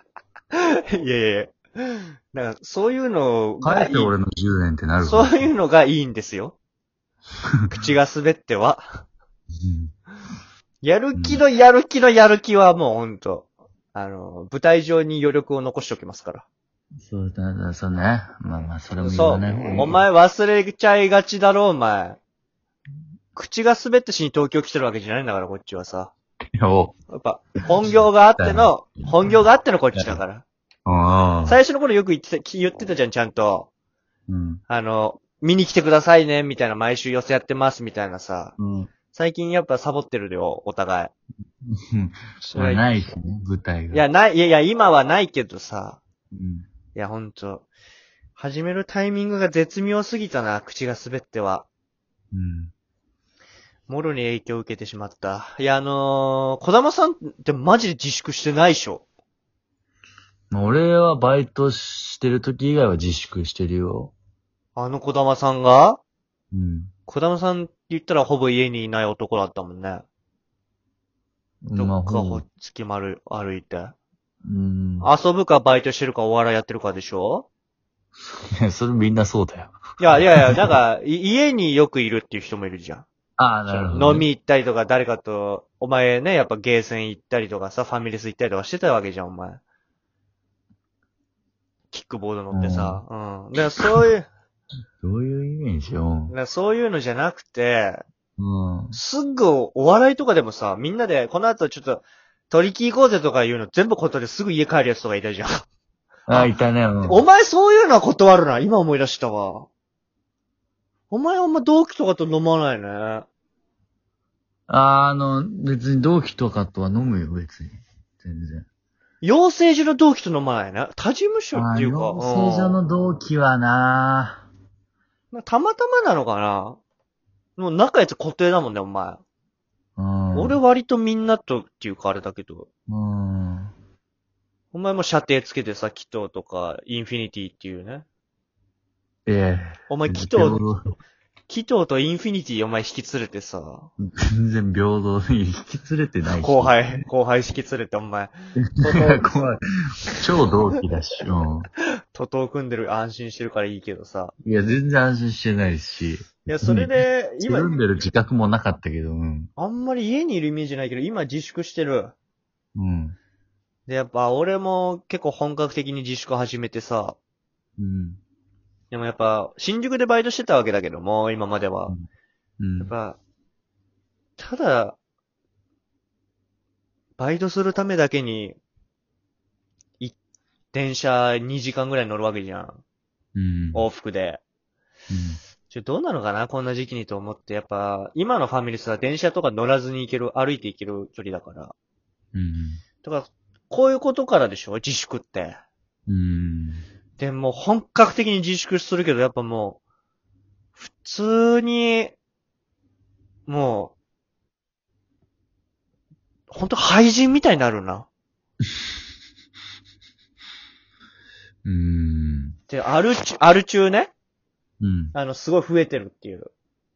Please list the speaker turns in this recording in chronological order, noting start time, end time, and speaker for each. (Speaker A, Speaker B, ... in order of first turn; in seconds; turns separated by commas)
Speaker A: 0.5-4.1, Speaker B: 3.6-5.5, Speaker A: 5.0-6.6, Speaker A: 7.7-8.8, Speaker B: 9.6-9.9, Speaker A: 10.8-16.4, Speaker B: 11.2-11.4, Speaker B: 17.0-20.0, Speaker A: 19.0-22.2, Speaker A: 23.3-26.1, Speaker B: 26.6-26.9, Speaker A: 27.1-30.4, Speaker B: 28.4-29.1, Speaker B: 30.9-31.6, Speaker A: 31.5-33.7, Speaker B: 34.3-34.6, Speaker A: 34.7-38.5, Speaker B: 38.6-38.9, Speaker A: 39.1-41.1, Speaker B: 41.7-44.0, Speaker A: 42.4-42.9, Speaker A: 43.9-46.0, Speaker B: 46.3-46.7, Speaker A: 47.0-47.7, Speaker A: 48.4-51.7, Speaker B: 52.3-52.7, Speaker A: 53.9-59.0, Speaker B: 60.5-64.1, Speaker A: 64.8-66.0, Speaker B: 66.5-66.9, Speaker A: 67.1-70.0, Speaker B: 71.6-72.4, Speaker A: 71.8-74.0, Speaker B: 74.5-75.1, Speaker A: 75.0-77.5, Speaker B: 78.2-79.8, Speaker A: 80.0-83.1, Speaker B: 83.4-84.3, Speaker A: 83.7-89.6, Speaker A: 91.9-94.3, Speaker B: 92.5-93.0, Speaker B: 95.0-96.3, Speaker A: 96.3-98.0, Speaker B: 98.4-99.0, Speaker A: 98.9-105.7, Speaker B: 106.3-107.2, Speaker A: 106.3-106.5, Speaker A: 107.0-109.7, Speaker A: 111.1-113.3, Speaker B: 114.7-118.7, Speaker A: 119.2-122.8, Speaker B: 121.5-124.5, Speaker A: 125.3-126.8, Speaker A: 127.6-129.2, Speaker B: 130.0-130.6, Speaker A: 130.3-132.7, Speaker B: 132.9-133.7, Speaker A: 134.7-138.1, Speaker B: 139.3-140.8, Speaker A: 139.9-140.6, Speaker A: 141.5-143.9, Speaker B: 144.0-147.0, Speaker A: 146.3-149.3, Speaker B: 148.8-149.6, Speaker B: 150.1-151.7, Speaker A: 152.1-154.3, Speaker B: 154.4-159.5, Speaker A: 156.4-157.8, Speaker A: 159.6-162.1, Speaker B: 162.8-163.2, Speaker A: 163.9-167.2, Speaker B: 167.8-168.2, Speaker A: 168.9-171.9, Speaker B: 172.6-172.9, Speaker A: 172.8-173.2, Speaker A: 174.4-175.0, Speaker A: 177.2-178.6, Speaker A: 180.7-182.8, Speaker B: 183.3-183.8, Speaker A: 183.7-184.4, Speaker B: 185.1-185.4, Speaker A: 185.7-191.7, Speaker B: 192.3-192.8, Speaker A: 193.0-195.6, Speaker B: 196.1-196.8, Speaker A: 197.2-199.8, Speaker A: 200.8-202.1, Speaker A: 203.5-203.9, Speaker A: 206.5-208.1, Speaker B: 211.7-212.6, Speaker A: 212.7-214.1, Speaker B: 214.8-215.2, Speaker A: 215.1-216.5